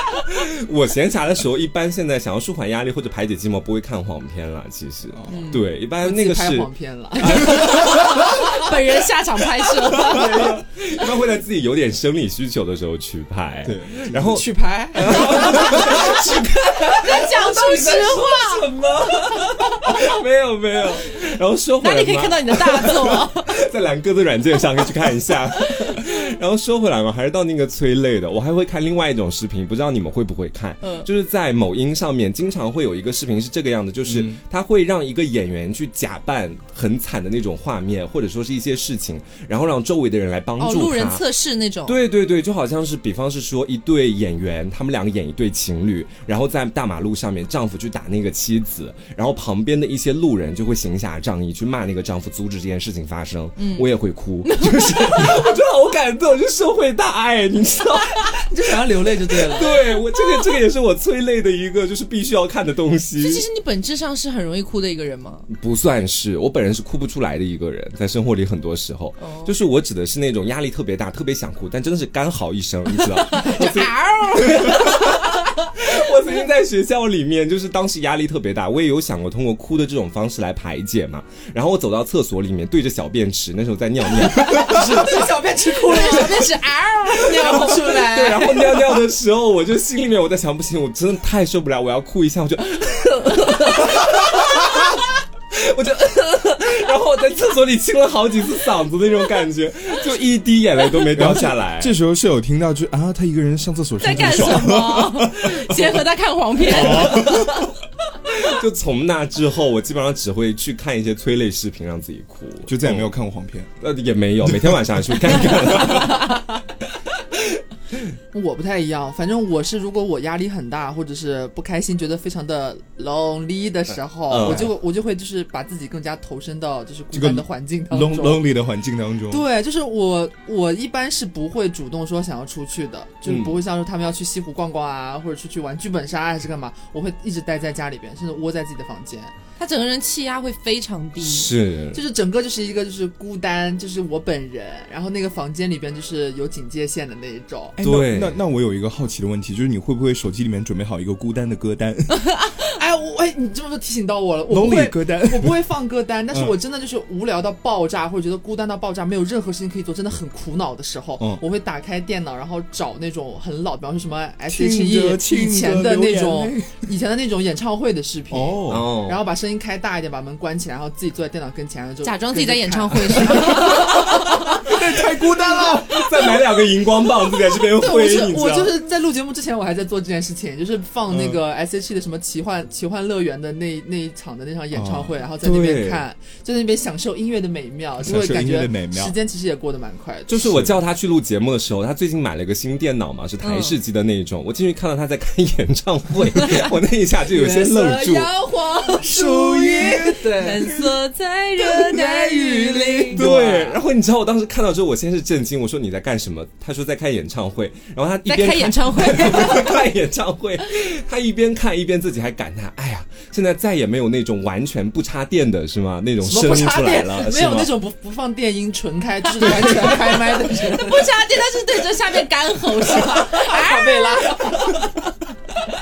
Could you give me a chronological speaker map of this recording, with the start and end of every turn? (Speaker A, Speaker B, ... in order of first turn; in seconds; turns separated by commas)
Speaker A: 0.1-6.7, Speaker B: 5.1-5.5, Speaker C: 5.3-5.6, Speaker D: 6.0-8.0, Speaker C: 7.3-10.3, Speaker A: 10.0-41.2, Speaker B: 13.6-14.4, Speaker D: 14.2-17.3, Speaker C: 16.7-18.6, Speaker C: 21.8-23.5, Speaker C: 30.8-31.1, Speaker B: 34.1-34.4, Speaker C: 40.6-42.0, Speaker A: 41.9-58.4, Speaker C: 53.6-53.9, Speaker C: 54.4-55.5, Speaker D: 58.3-59.8, Speaker A: 59.0-63.5, Speaker C: 59.7-60.5, Speaker C: 63.2-65.5, Speaker A: 65.5-85.2, Speaker C: 69.2-69.5, Speaker C: 72.9-75.5, Speaker D: 84.5-86.5, Speaker C: 84.5-85.0, Speaker C: 85.8-88.9, Speaker A: 85.9-86.4, Speaker A: 87.2-101.9, Speaker D: 87.2-88.7, Speaker B: 101.1-106.0, Speaker C: 104.0-107.6, Speaker B: 106.6-107.7, Speaker A: 106.9-107.3, Speaker A: 108.3-113.1, Speaker B: 112.7-113.7, Speaker A: 113.8-116.4, Speaker B: 114.5-115.4, Speaker C: 115.8-116.2, Speaker D: 118.3-128.4, Speaker A: 124.3-124.7, Speaker B: 124.4-124.7, Speaker B: 127.1-129.4, Speaker D: 129.3-139.3, Speaker A: 133.2-133.5, Speaker C: 139.6-141.5, Speaker A: 141.2-142.0, Speaker D: 141.9-147.8, Speaker B: 147.8-152.1, Speaker A: 147.8-148.4, Speaker D: 152.7-175.8, Speaker B: 154.5-155.6, Speaker B: 164.5-166.9, Speaker B: 168.3-168.9, Speaker A: 168.7-169.2, Speaker C: 172.0-174.7, Speaker B: 174.6-176.2, Speaker A: 175.6-178.7, Speaker D: 177.6-190.6, Speaker B: 181.1-181.4, Speaker B: 184.7-185.2, Speaker A: 185.4-186.0, Speaker B: 188.0-189.1, Speaker A: 190.3-198.3, Speaker B: 190.4-190.7, Speaker C: 193.4-193.8, Speaker C: 196.3-196.6, Speaker D: 197.3-200.8, Speaker C: 198.4-203.2, Speaker B: 199.1-200.2, Speaker D: 201.9-203.8, Speaker B: 202.1-202.4, Speaker A: 203.1-217.7, Speaker C: 208.3-209.8, Speaker D: 216.2-221.1, Speaker C: 219.4-224.6, Speaker D: 222.9-224.9